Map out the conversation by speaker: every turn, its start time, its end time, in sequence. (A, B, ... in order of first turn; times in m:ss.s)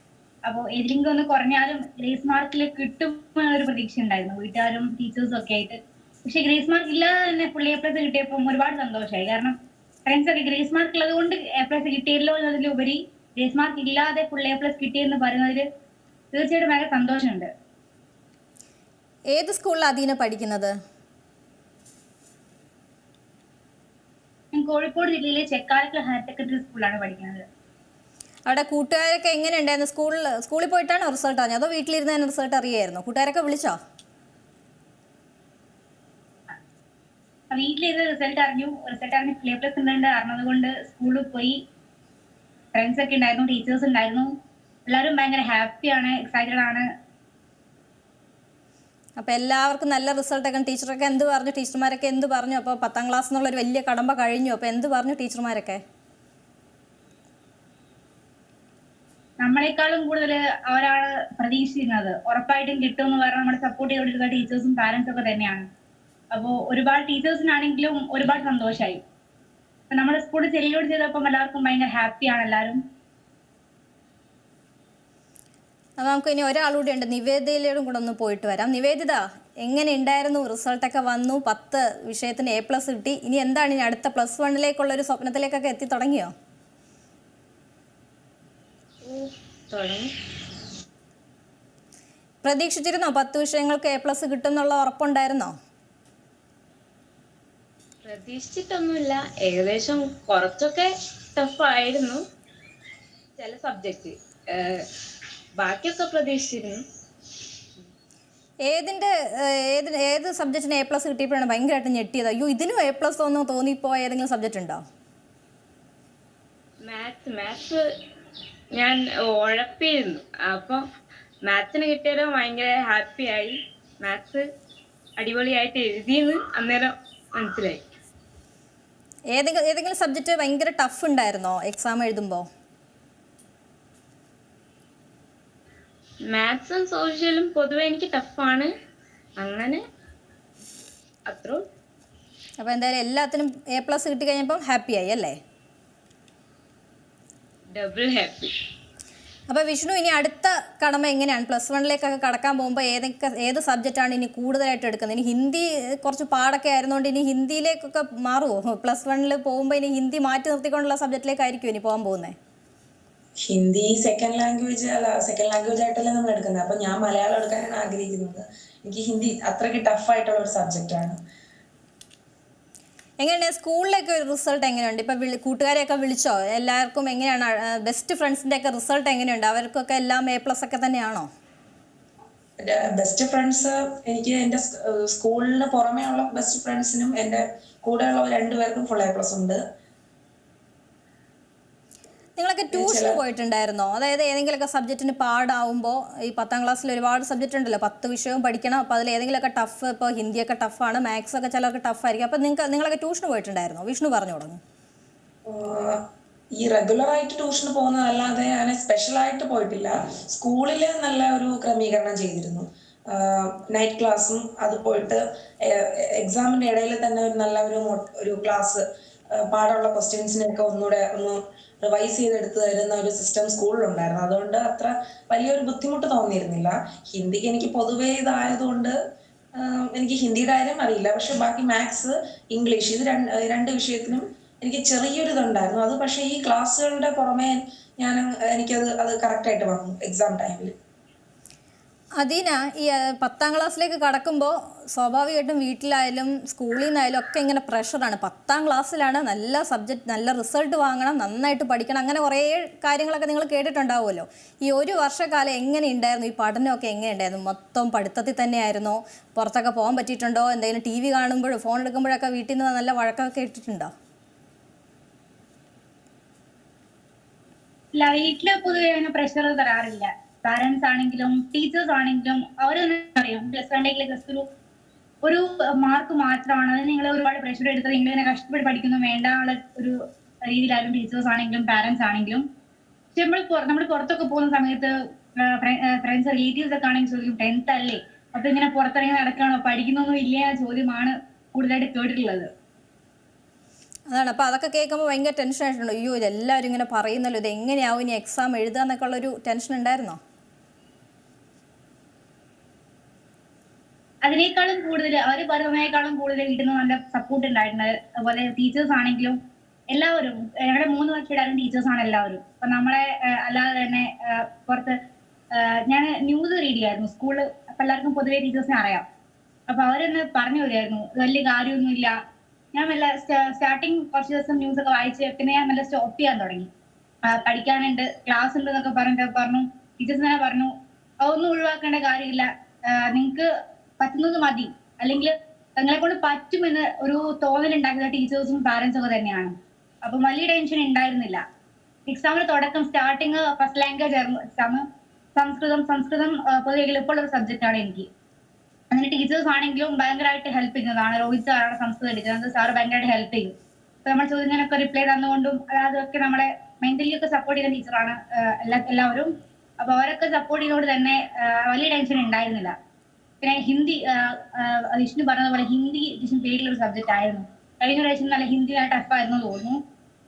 0:00.4-0:15.7 A
0:16.3-0:17.5 A
0:19.3-0:20.7 B
0:24.5-0:27.4 A
0:28.5-0:33.8 B
0:37.5-0:41.6 A
0:42.7-0:44.3 A
0:44.9-0:46.9 A
0:49.2-0:55.8 B
0:59.4-1:05.7 A
1:06.3-1:09.0 A
1:09.9-1:12.8 A
1:16.0-1:26.3 B
1:29.0-1:30.1 C
1:32.4-1:35.6 B
1:38.0-1:42.2 C
1:43.4-1:44.9 C
1:45.6-1:46.8 C
1:48.7-1:54.8 B
1:56.8-1:57.8 C
1:58.7-2:00.8 C
2:01.5-2:04.5 C
2:05.2-2:07.8 C
2:09.3-2:12.5 B
2:16.3-2:18.7 C
2:19.4-2:19.8 C
2:21.3-2:21.6 C
2:22.6-2:25.4 B
2:27.7-2:28.5 C
2:29.5-2:42.4 B
2:43.5-2:51.2 D
2:53.2-3:01.3 B
3:02.6-3:09.6 D
3:12.4-3:24.6 B
3:12.7-3:13.2 D
3:25.5-3:49.0 D
3:49.6-4:00.8 D
4:02.2-4:23.9 B
4:27.9-4:34.5 A
4:35.2-4:42.5 A
4:43.1-4:52.5 A
4:54.1-5:00.2 B
5:04.2-5:09.4 A
5:09.9-5:15.0 A
5:15.5-5:19.1 A
5:19.7-5:22.2 A
5:22.7-5:26.7 A
5:27.2-5:41.4 A
5:42.1-5:48.1 A
5:48.9-5:53.5 A
5:54.0-6:02.8 A
6:03.4-6:09.8 A